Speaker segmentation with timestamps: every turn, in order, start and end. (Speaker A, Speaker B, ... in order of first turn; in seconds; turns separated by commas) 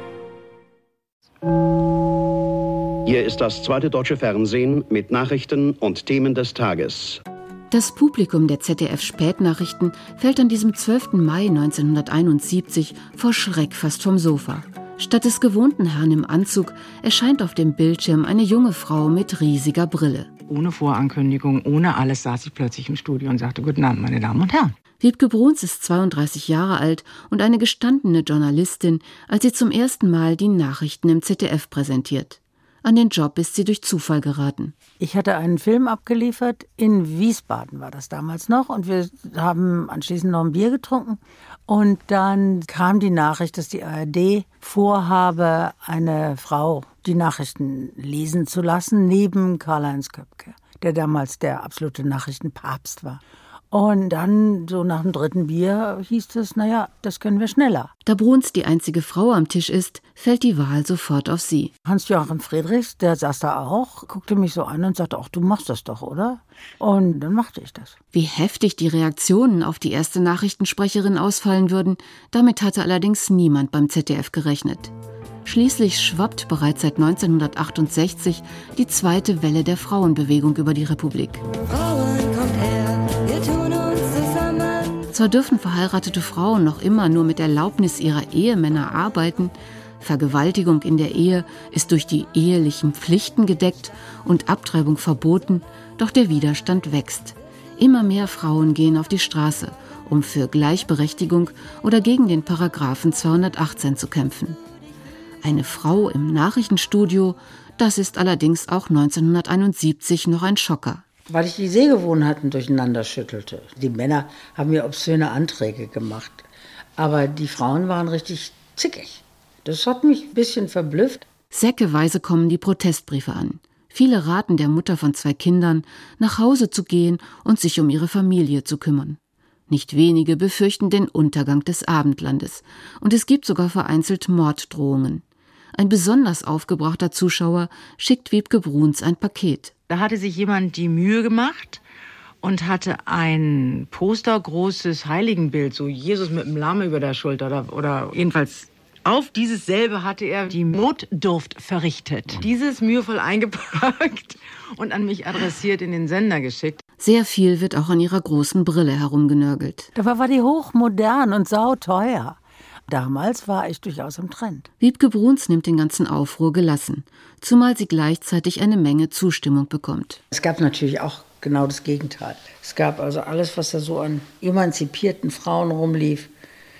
Speaker A: 3.0-7.2, Speaker B: 7.7-20.3, Speaker C: 20.5-24.7, Speaker B: 25.0-34.7, Speaker D: 35.0-53.2, Speaker D: 53.7-57.9, Speaker B: 58.0-61.7, Speaker D: 61.9-67.9, Speaker B: 68.1-74.9, Speaker B: 75.4-81.4, Speaker E: 81.7-85.0, Speaker B: 85.1-104.6, Speaker B: 105.4-111.0, Speaker D: 111.3-121.2, Speaker B: 121.5-129.2, Speaker B: 129.7-135.2, Speaker B: 135.7-139.7, Speaker C: 139.9-141.8, Speaker C: 142.4-156.8, Speaker B: 157.0-159.9, Speaker D: 159.9-162.4, Speaker D: 162.9-164.7, Speaker B: 164.8-170.2, Speaker D: 170.3-176.3